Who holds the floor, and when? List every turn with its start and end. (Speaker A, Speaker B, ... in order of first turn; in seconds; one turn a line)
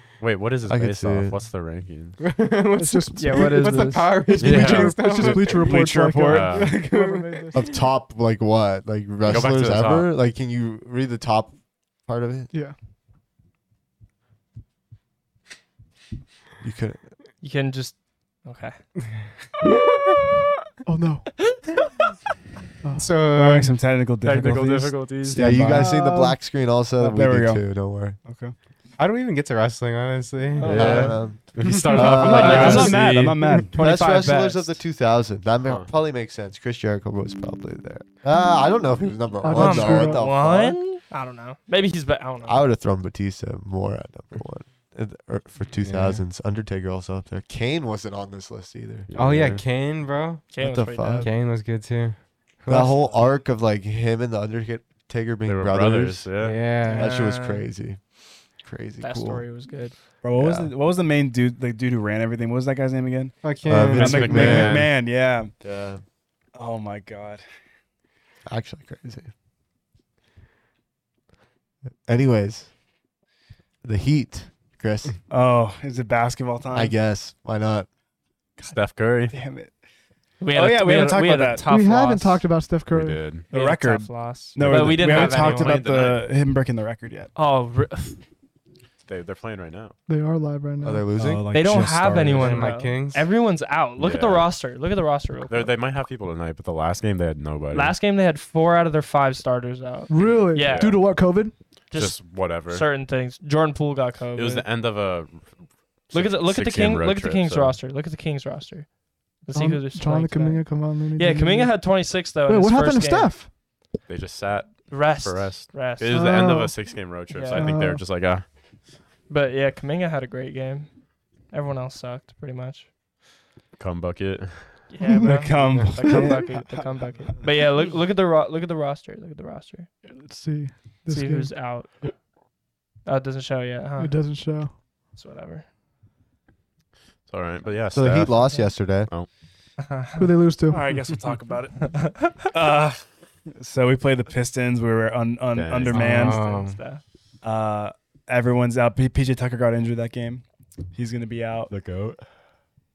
Speaker A: 0.2-2.2
Speaker B: 0.7-1.4
Speaker C: 2.2-5.8
Speaker D: 2.8-7.6
Speaker E: 3.1-4.8
Speaker A: 4.4-5.0
Speaker F: 5.5-6.7
Speaker A: 6.3-6.7
Speaker C: 6.5-7.7
Speaker B: 7.5-11.5
Speaker A: 9.2-10.1
Speaker B: 12.0-12.5
Speaker B: 16.6-17.0
Speaker E: 17.4-18.8
Speaker C: 19.2-20.1
Speaker D: 20.9-21.3
Speaker D: 22.8-23.1
Speaker C: 22.9-23.8
Speaker F: 23.3-25.9
Speaker A: 24.2-25.5
Speaker B: 25.3-28.2
Speaker D: 25.7-26.4
Speaker F: 27.0-27.6
Speaker F: 28.2-28.5
Speaker C: 29.0-33.0
Speaker F: 30.6-31.0
Speaker E: 30.6-31.1
Speaker A: 30.6-33.4
Speaker B: 30.7-33.0
Speaker E: 32.2-33.1
Speaker F: 32.2-33.7
Speaker E: 33.7-34.8
Speaker B: 33.8-40.8
Speaker D: 39.4-40.2
Speaker E: 39.5-42.6
Speaker B: 42.4-49.1
Speaker C: 45.8-46.2
Speaker A: 49.1-49.6
Speaker C: 49.1-50.5
Speaker E: 50.5-51.3
Speaker B: 50.6-51.3
Speaker C: 51.2-53.2
Speaker B: 52.7-56.3
Speaker A: 55.4-56.6
Speaker C: 56.4-57.1
Speaker E: 56.9-57.6
Speaker B: 56.9-59.5
Speaker E: 59.0-60.0
Speaker F: 60.2-65.5
Speaker B: 60.4-60.7
Speaker C: 63.4-64.7
Speaker B: 63.7-64.9
Speaker A: 63.9-64.9
Speaker B: 65.6-66.0
Speaker F: 66.5-67.4
Speaker B: 68.5-69.3
Speaker B: 72.0-72.7
Speaker B: 73.8-75.1
Speaker F: 75.3-76.9
Speaker B: 76.7-77.9
Speaker A: 78.6-79.3
Speaker F: 79.3-79.7
Speaker E: 80.4-82.5
Speaker F: 80.5-81.6
Speaker D: 81.7-83.2
Speaker A: 82.9-83.5
Speaker E: 83.5-86.1
Speaker F: 83.5-87.3
Speaker A: 84.6-86.2
Speaker E: 87.3-88.2
Speaker A: 89.1-89.9
Speaker D: 90.1-91.0
Speaker B: 90.8-91.5
Speaker F: 91.2-92.7
Speaker E: 91.5-95.7
Speaker C: 92.3-93.2
Speaker A: 94.0-94.5
Speaker A: 95.5-98.0
Speaker E: 97.7-101.2
Speaker D: 100.1-101.5
Speaker A: 100.5-101.0
Speaker E: 101.9-104.7
Speaker A: 101.9-102.9
Speaker A: 104.3-107.8
Speaker E: 106.1-113.4
Speaker D: 109.5-113.5
Speaker A: 114.1-118.5
Speaker E: 114.9-116.2
Speaker D: 116.1-118.0
Speaker E: 117.3-117.8
Speaker E: 119.3-122.9
Speaker A: 123.8-124.8
Speaker E: 124.9-129.9
Speaker D: 125.0-125.3
Speaker F: 125.2-127.5
Speaker D: 130.1-131.5
Speaker E: 131.1-132.1
Speaker E: 133.0-134.4
Speaker D: 134.0-134.7
Speaker E: 135.1-135.7
Speaker A: 137.3-139.3
Speaker B: 137.9-139.1
Speaker E: 139.8-140.3
Speaker D: 140.2-140.9
Speaker F: 140.7-143.0
Speaker E: 141.8-142.5
Speaker F: 143.5-146.4
Speaker A: 145.5-146.0
Speaker C: 145.9-146.8
Speaker E: 145.9-147.0
Speaker F: 147.4-151.7
Speaker A: 151.7-152.2